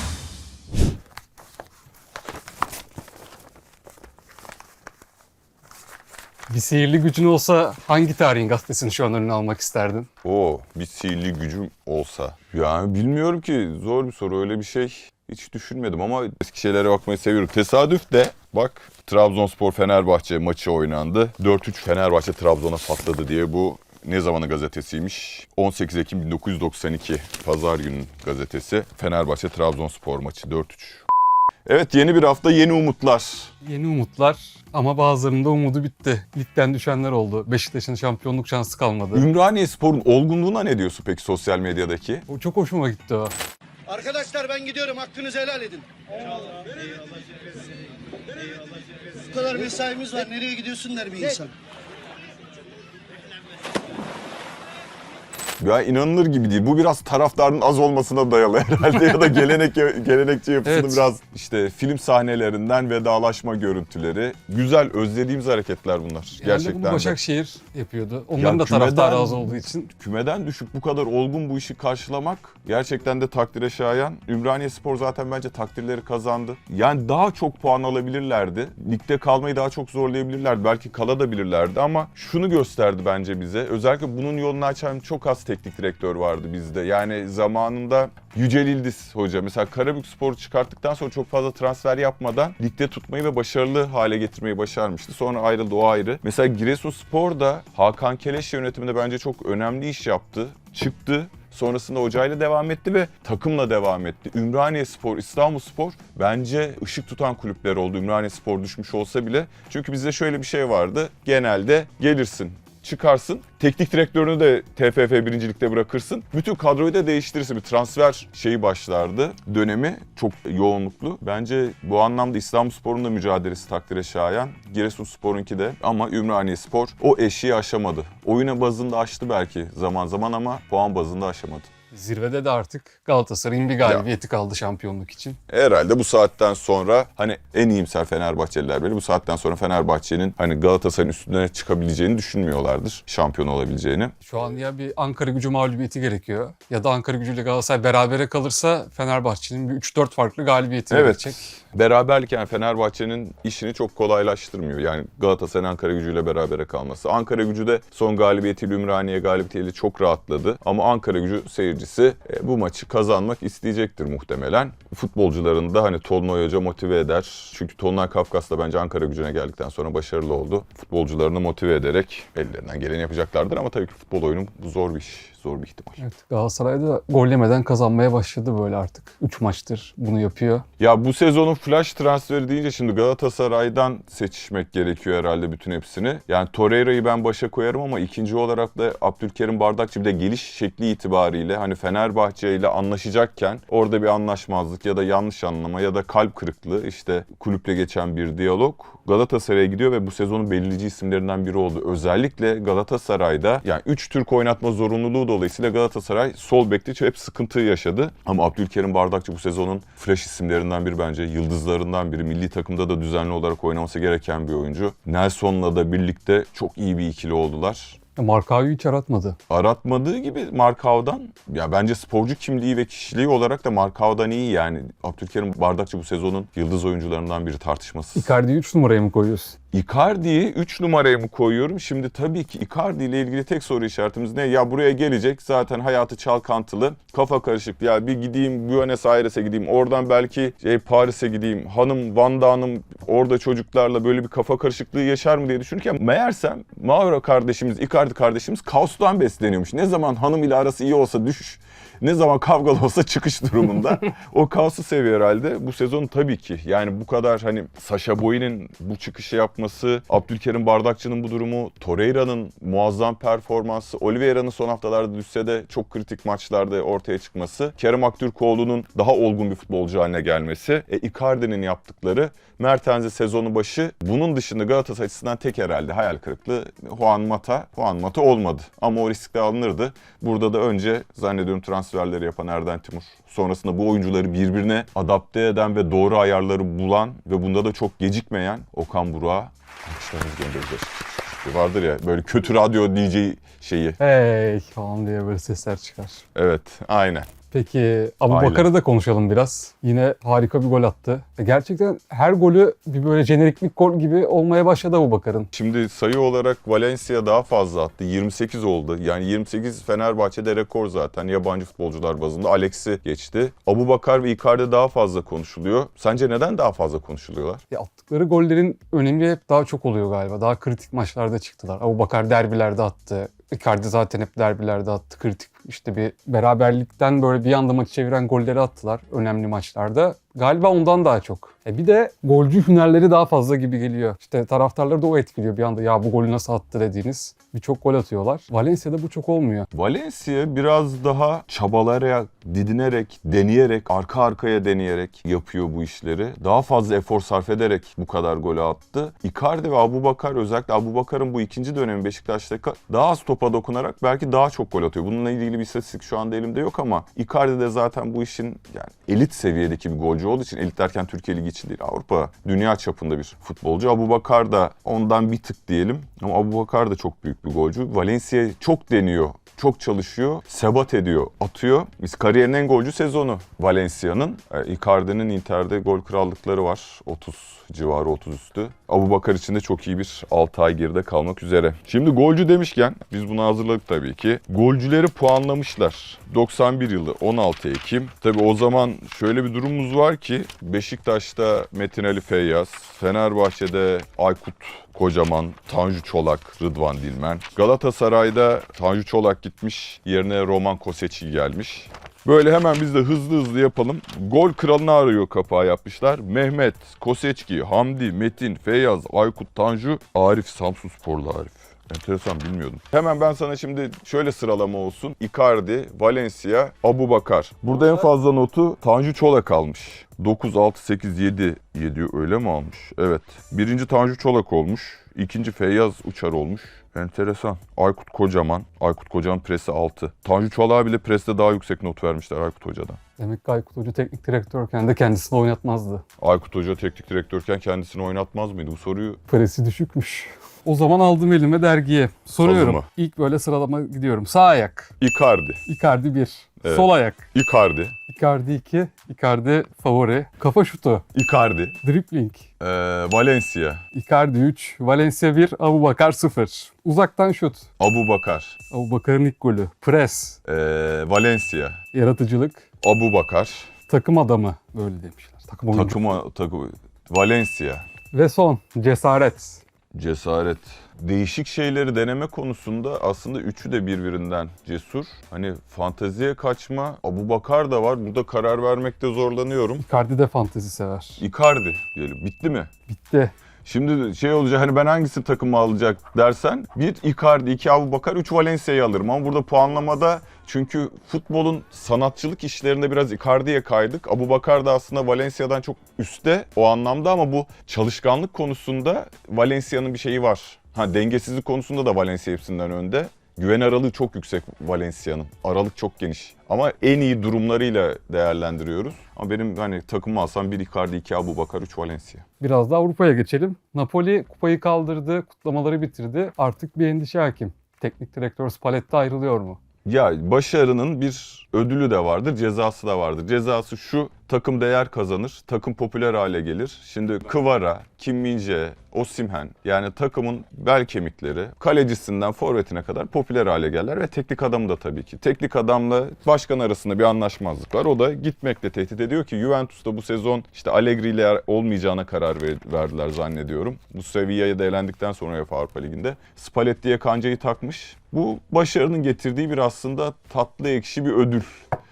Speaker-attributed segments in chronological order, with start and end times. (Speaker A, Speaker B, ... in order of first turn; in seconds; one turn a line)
Speaker A: 6.5-10.1
Speaker B: 10.2-31.0
Speaker B: 31.6-33.5
Speaker A: 33.6-39.3
Speaker B: 39.1-42.2
Speaker A: 42.3-43.3
Speaker C: 44.0-45.8
Speaker C: 49.4-51.5
Speaker B: 55.6-67.2
Speaker A: 60.6-61.1
Speaker A: 66.4-69.9
Speaker B: 68.4-131.7
Speaker A: 131.9-135.4
Speaker B: 133.8-134.1
Speaker B: 135.5-144.1
Speaker A: 144.2-151.5
Speaker B: 150.9-176.0
Speaker A: 176.0-180.6
Speaker B: 180.8-218.0
Speaker A: 218.2-219.4
Speaker B: 219.5-228.3
Speaker A: 228.1-229.5
Speaker B: 229.7-294.0
Speaker A: 294.0-296.2
Speaker B: 296.3-297.3
Speaker A: 297.5-305.5
Speaker B: 298.3-298.7
Speaker B: 305.5-317.6
Speaker A: 317.7-339.7
Speaker B: 339.7-433.0
Speaker A: 433.2-436.0
Speaker B: 436.2-439.2
Speaker A: 439.3-444.9
Speaker B: 442.4-442.9
Speaker B: 445.0-445.6
Speaker A: 445.6-447.3
Speaker B: 446.6-447.9
Speaker A: 448.1-451.0
Speaker B: 451.1-451.8
Speaker A: 451.8-452.5
Speaker B: 452.6-453.8
Speaker A: 453.9-457.7
Speaker B: 457.8-458.6
Speaker A: 458.7-460.4
Speaker B: 460.4-461.8
Speaker A: 461.9-462.7
Speaker B: 462.8-463.7
Speaker A: 463.9-466.0
Speaker B: 465.7-467.9
Speaker A: 468.1-469.6
Speaker B: 469.9-479.9
Speaker A: 479.8-481.2
Speaker B: 481.2-482.7
Speaker A: 482.9-483.3
Speaker B: 483.6-512.2
Speaker A: 512.4-519.6
Speaker B: 519.8-551.7